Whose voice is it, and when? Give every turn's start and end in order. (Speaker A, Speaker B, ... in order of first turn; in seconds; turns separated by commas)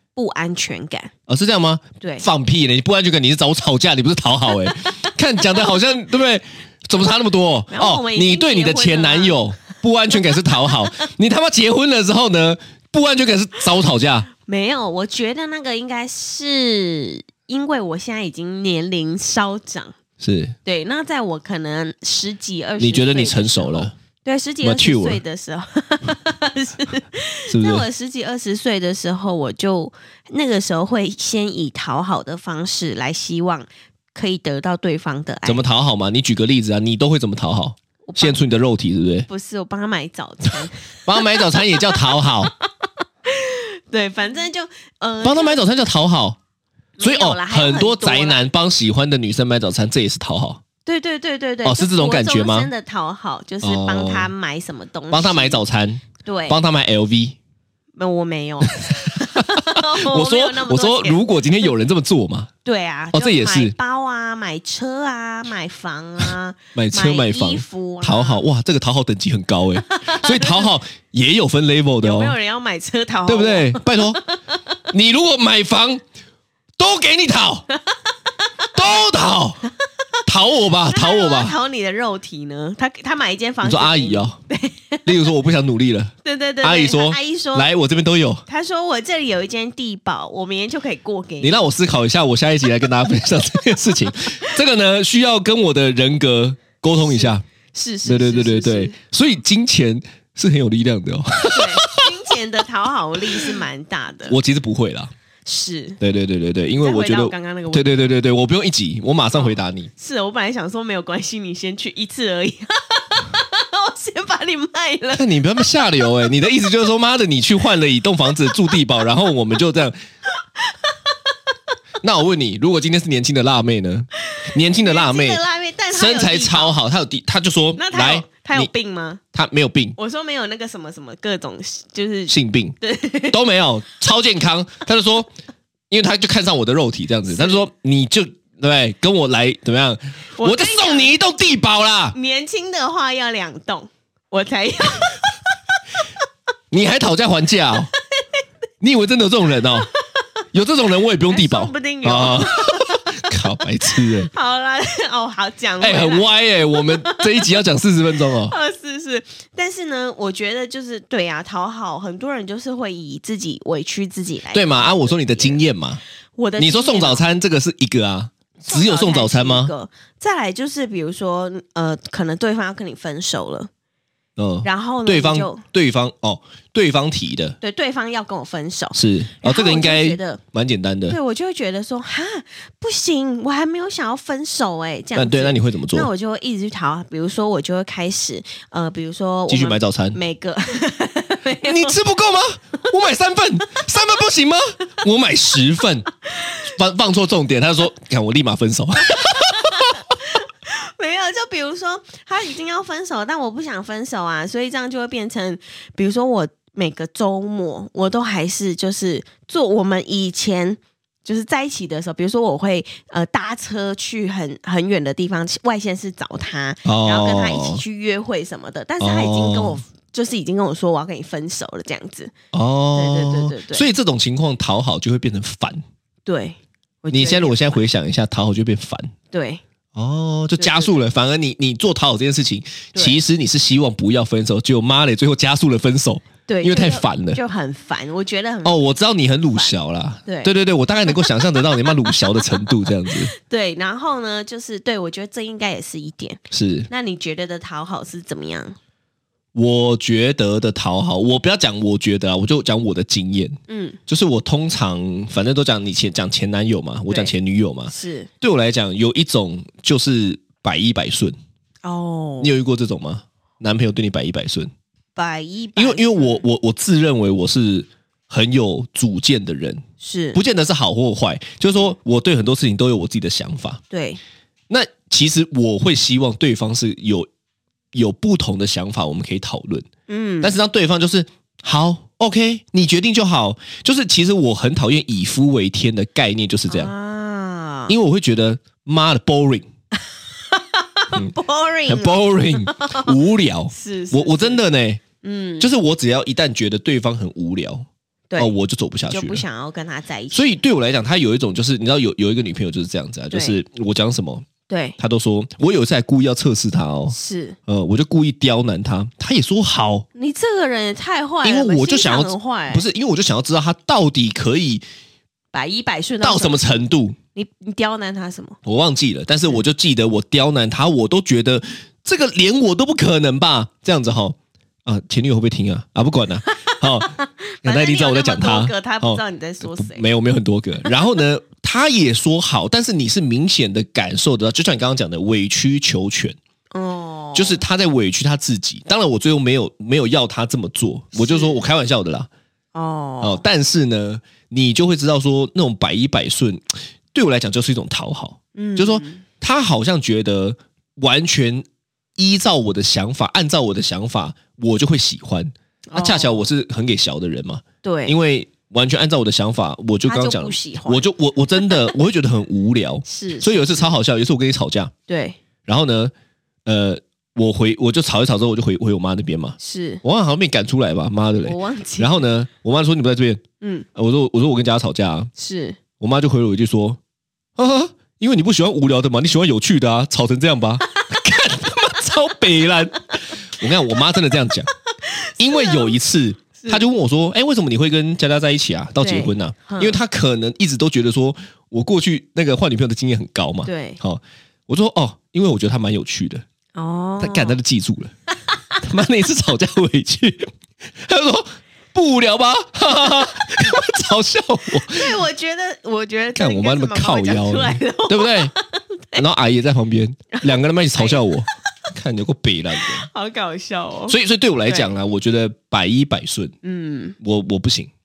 Speaker A: 0.1-1.1, Speaker B: 1.3-14.3, Speaker A: 2.0-2.2, Speaker A: 4.7-5.6, Speaker A: 7.7-9.4, Speaker A: 14.4-19.9, Speaker B: 20.2-20.6, Speaker A: 20.6-35.6, Speaker B: 22.8-23.9, Speaker B: 24.6-25.2, Speaker B: 27.5-27.9, Speaker B: 35.4-39.3, Speaker A: 38.0-38.4, Speaker A: 39.3-42.3, Speaker B: 41.0-42.5, Speaker A: 43.2-45.6, Speaker B: 45.2-46.4, Speaker A: 47.0-48.4, Speaker B: 47.0-50.6, Speaker A: 50.8-55.6, Speaker B: 51.6-52.7, Speaker B: 53.6-54.3, Speaker B: 55.1-57.4, Speaker A: 56.2-56.6, Speaker A: 58.0-61.2, Speaker B: 58.9-62.5, Speaker A: 62.6-68.4, Speaker B: 63.1-63.7, Speaker B: 66.7-72.3, Speaker A: 69.9-70.7, Speaker A: 72.0-74.4, Speaker B: 73.2-74.2, Speaker B: 74.9-76.0, Speaker B: 76.8-77.7, Speaker B: 78.7-79.6, Speaker B: 80.2-81.5, Speaker A: 80.8-85.1, Speaker B: 83.6-84.4, Speaker B: 85.0-88.4, Speaker A: 86.2-87.7, Speaker A: 88.5-91.6, Speaker B: 91.4-97.4, Speaker A: 97.0-99.0, Speaker B: 98.0-102.1, Speaker A: 101.5-104.3, Speaker B: 104.3-105.1, Speaker A: 105.4-106.0, Speaker B: 106.0-109.9, Speaker A: 106.8-108.0, Speaker A: 109.3-115.4, Speaker B: 115.1-120.0, Speaker A: 120.5-121.3, Speaker B: 122.0-128.7, Speaker A: 124.3-126.8, Speaker A: 127.8-129.2, Speaker B: 129.3-129.9, Speaker A: 130.0-133.4, Speaker B: 132.3-132.7, Speaker B: 133.3-135.3, Speaker B: 135.9-142.2, Speaker A: 137.3-137.6, Speaker A: 140.3-141.1, Speaker A: 142.1-145.5, Speaker B: 146.7-147.9, Speaker B: 148.8-149.9, Speaker A: 149.7-150.2, Speaker B: 150.5-154.3, Speaker A: 151.3-153.3, Speaker A: 153.9-157.6, Speaker B: 155.8-158.5, Speaker A: 158.2-165.6, Speaker B: 164.5-166.0, Speaker A: 166.4-167.2, Speaker B: 166.6-169.7, Speaker A: 168.6-173.7, Speaker B: 174.4-177.6, Speaker A: 174.6-175.6, Speaker A: 177.6-180.4, Speaker B: 178.9-181.2, Speaker A: 181.1-191.9, Speaker B: 185.1-186.1, Speaker B: 189.5-190.2, Speaker B: 191.6-196.1, Speaker B: 196.7-199.9, Speaker A: 199.1-222.3, Speaker B: 216.8-217.8, Speaker B: 219.0-219.8, Speaker B: 222.5-225.8, Speaker A: 222.9-223.8, Speaker A: 226.2-227.8, Speaker B: 227.1-229.1, Speaker A: 229.3-229.6, Speaker B: 229.9-237.4, Speaker A: 230.6-231.0, Speaker A: 232.9-233.2, Speaker A: 236.5-238.8, Speaker B: 238.6-243.3, Speaker A: 239.5-240.5, Speaker A: 241.1-248.8, Speaker B: 246.5-246.9, Speaker B: 249.5-261.4, Speaker A: 253.7-254.0, Speaker A: 257.9-258.3, Speaker A: 261.8-262.5, Speaker B: 262.4-264.7, Speaker A: 265.1-266.4, Speaker B: 265.7-269.8, Speaker A: 270.0-270.4, Speaker B: 270.3-273.8, Speaker A: 273.9-274.2, Speaker B: 274.7-277.3, Speaker B: 277.9-279.9, Speaker A: 280.1-280.6, Speaker B: 280.4-286.9, Speaker A: 286.7-287.9, Speaker B: 287.9-289.6, Speaker A: 290.5-293.1, Speaker B: 291.9-295.0, Speaker A: 293.7-294.6, Speaker A: 295.2-295.7, Speaker B: 295.6-297.9, Speaker B: 298.4-299.4, Speaker A: 299.1-300.5, Speaker B: 300.3-304.5, Speaker A: 303.3-303.6, Speaker A: 304.7-305.0, Speaker B: 305.0-307.1, Speaker A: 307.1-307.6, Speaker B: 307.7-310.1, Speaker A: 310.1-312.8, Speaker B: 311.4-314.8, Speaker A: 315.5-316.8, Speaker B: 316.2-317.2, Speaker A: 317.3-318.6, Speaker B: 318.6-336.4, Speaker A: 326.5-330.0, Speaker A: 336.7-337.6, Speaker B: 337.3-342.3, Speaker A: 341.1-341.6, Speaker A: 342.7-343.4, Speaker B: 343.2-351.6, Speaker A: 348.5-349.2, Speaker B: 352.2-364.9, Speaker A: 355.9-356.4, Speaker A: 357.8-358.1, Speaker A: 360.1-361.1, Speaker A: 361.6-361.9, Speaker A: 363.1-363.9, Speaker A: 365.1-365.4, Speaker B: 365.6-366.1, Speaker B: 366.6-373.4, Speaker A: 369.6-370.0, Speaker A: 371.4-372.2, Speaker A: 373.6-373.9, Speaker B: 373.9-375.3, Speaker A: 375.4-375.8, Speaker B: 376.0-377.0, Speaker B: 377.6-384.7, Speaker A: 385.0-385.9, Speaker B: 385.4-396.4, Speaker A: 386.6-386.8, Speaker A: 389.0-390.0, Speaker A: 393.6-394.0, Speaker A: 396.8-397.6, Speaker B: 397.2-398.1, Speaker B: 398.8-400.5, Speaker B: 401.0-405.1, Speaker A: 404.8-409.2, Speaker B: 406.3-408.5, Speaker B: 409.1-413.1, Speaker A: 410.3-411.2, Speaker A: 412.8-414.1, Speaker B: 414.1-416.5, Speaker A: 416.6-417.1, Speaker B: 417.2-417.9